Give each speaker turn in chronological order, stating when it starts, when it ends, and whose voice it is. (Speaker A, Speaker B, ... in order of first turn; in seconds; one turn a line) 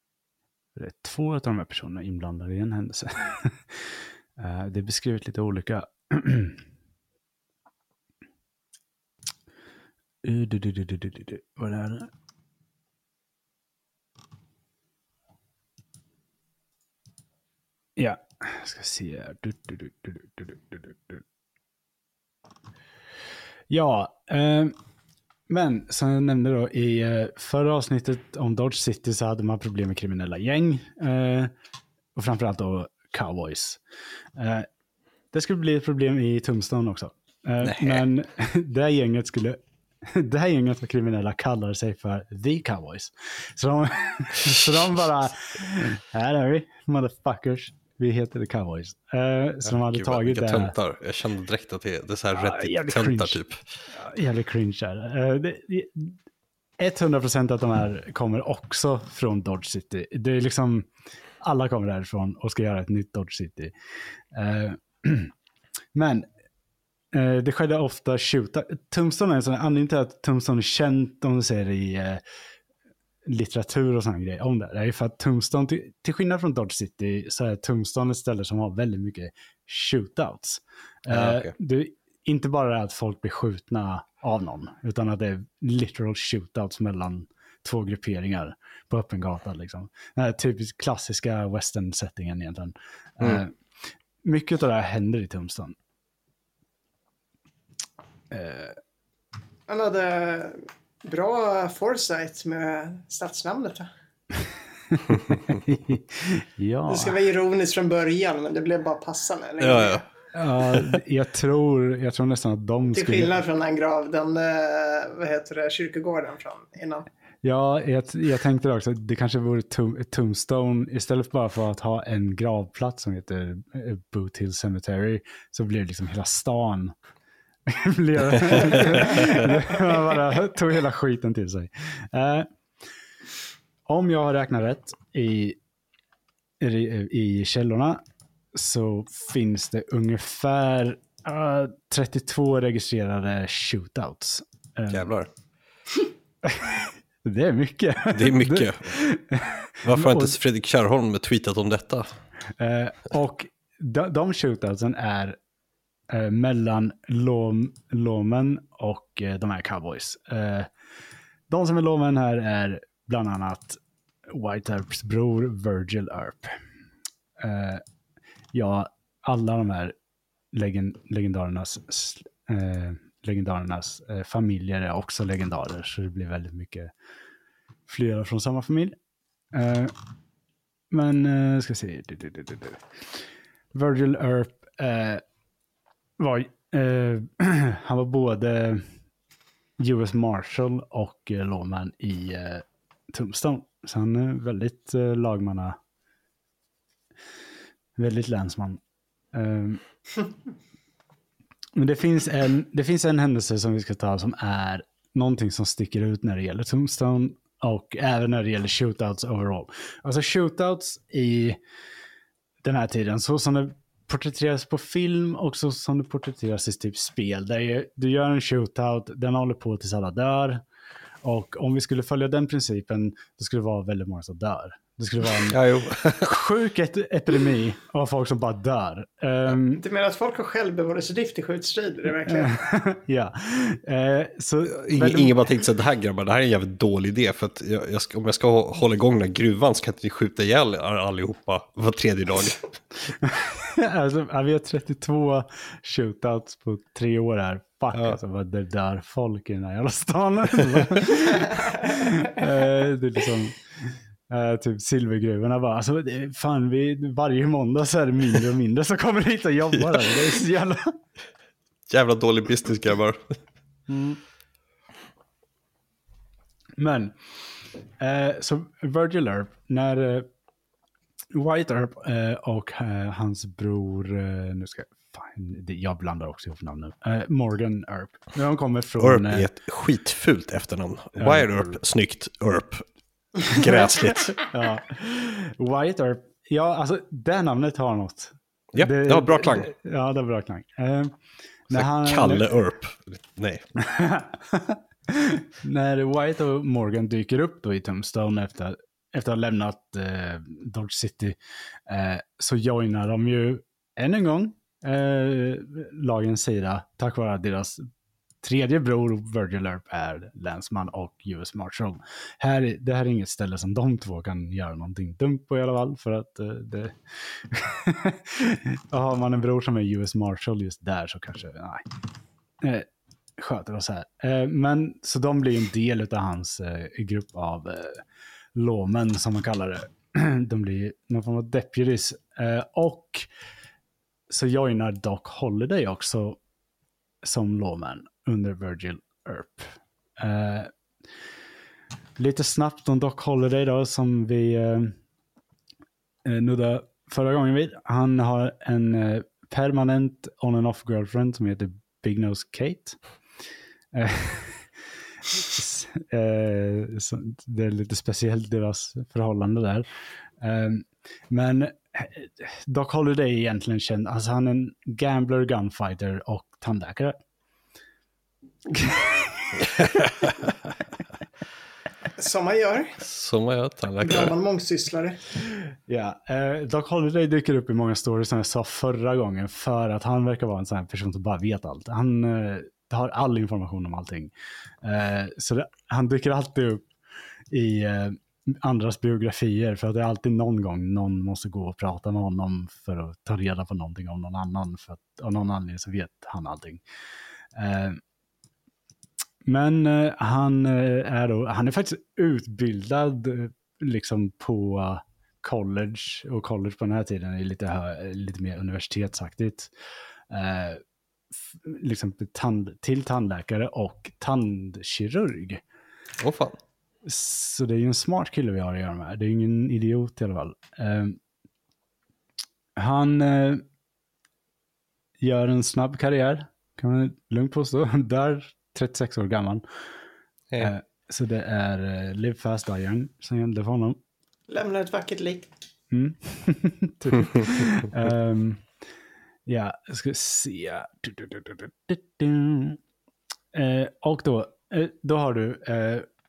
Speaker A: 0.7-6.6
Speaker A: 10.2-12.1
Speaker A: 18.0-21.2
Speaker A: 23.7-24.7
Speaker A: 25.5-31.5
Speaker A: 32.1-33.8
Speaker A: 34.4-34.7
Speaker A: 35.3-50.7
Speaker B: 37.6-38.0
Speaker B: 49.6-53.6
Speaker A: 52.3-53.4
Speaker A: 53.9-56.2
Speaker A: 56.8-60.9
Speaker A: 61.4-63.7
Speaker A: 64.3-65.3
Speaker A: 65.9-66.3
Speaker A: 67.1-72.2
Speaker A: 73.2-93.6
Speaker B: 81.1-81.5
Speaker A: 94.2-95.8
Speaker A: 98.3-98.8
Speaker C: 99.7-103.9
Speaker A: 104.9-107.2
Speaker C: 106.9-110.0
Speaker B: 109.6-110.0
Speaker A: 110.3-113.3
Speaker C: 112.9-117.1
Speaker A: 117.4-126.9
Speaker A: 127.7-132.5
Speaker B: 128.5-129.5
Speaker A: 133.8-135.6
Speaker A: 136.6-138.0
Speaker A: 138.5-145.1
Speaker B: 144.9-145.3
Speaker A: 146.4-150.3
Speaker B: 148.1-148.9
Speaker B: 149.8-152.1
Speaker A: 152.6-155.4
Speaker A: 156.1-160.7
Speaker A: 161.5-166.6
Speaker A: 167.4-167.8
Speaker A: 168.5-169.9
Speaker A: 170.5-176.9
Speaker A: 177.9-178.9
Speaker A: 179.5-179.9
Speaker A: 180.9-182.8
Speaker A: 183.7-185.2
Speaker A: 186.2-189.0
Speaker A: 189.8-195.8
Speaker A: 198.0-198.8
Speaker A: 199.3-199.8
Speaker A: 201.8-211.6
Speaker A: 212.6-220.6
Speaker A: 221.2-225.6
Speaker B: 225.4-226.3
Speaker A: 226.2-229.8
Speaker C: 229.8-232.6
Speaker A: 232.2-235.4
Speaker B: 234.9-242.6
Speaker A: 243.1-261.0
Speaker B: 259.7-260.3
Speaker B: 261.9-263.4
Speaker A: 263.9-264.2
Speaker A: 266.8-267.1
Speaker A: 268.0-270.3
Speaker A: 271.3-279.5
Speaker B: 279.0-282.8
Speaker A: 281.2-281.7
Speaker B: 283.4-284.4
Speaker A: 284.5-291.1
Speaker B: 288.7-289.7
Speaker A: 291.7-292.5
Speaker B: 291.7-293.6
Speaker A: 293.8-301.4
Speaker A: 301.9-307.8
Speaker A: 308.4-321.8
Speaker A: 322.6-322.9
Speaker A: 323.4-333.3
Speaker A: 334.3-336.4
Speaker A: 337.2-340.7
Speaker A: 342.2-345.0
Speaker A: 346.2-353.0
Speaker A: 353.9-354.7
Speaker A: 355.4-359.9
Speaker A: 360.4-367.2
Speaker A: 368.7-369.9
Speaker C: 372.2-373.0
Speaker B: 373.0-374.3
Speaker C: 374.0-375.2
Speaker A: 375.8-386.8
Speaker A: 387.5-396.8
Speaker A: 397.5-398.0
Speaker A: 399.4-409.7
Speaker A: 410.3-410.8
Speaker A: 411.5-415.6
Speaker B: 416.2-416.6
Speaker A: 417.0-421.2
Speaker A: 422.8-423.6
Speaker A: 425.2-429.6
Speaker A: 430.6-434.0
Speaker C: 434.5-435.5
Speaker A: 435.9-438.7
Speaker A: 439.4-442.8
Speaker A: 443.5-446.1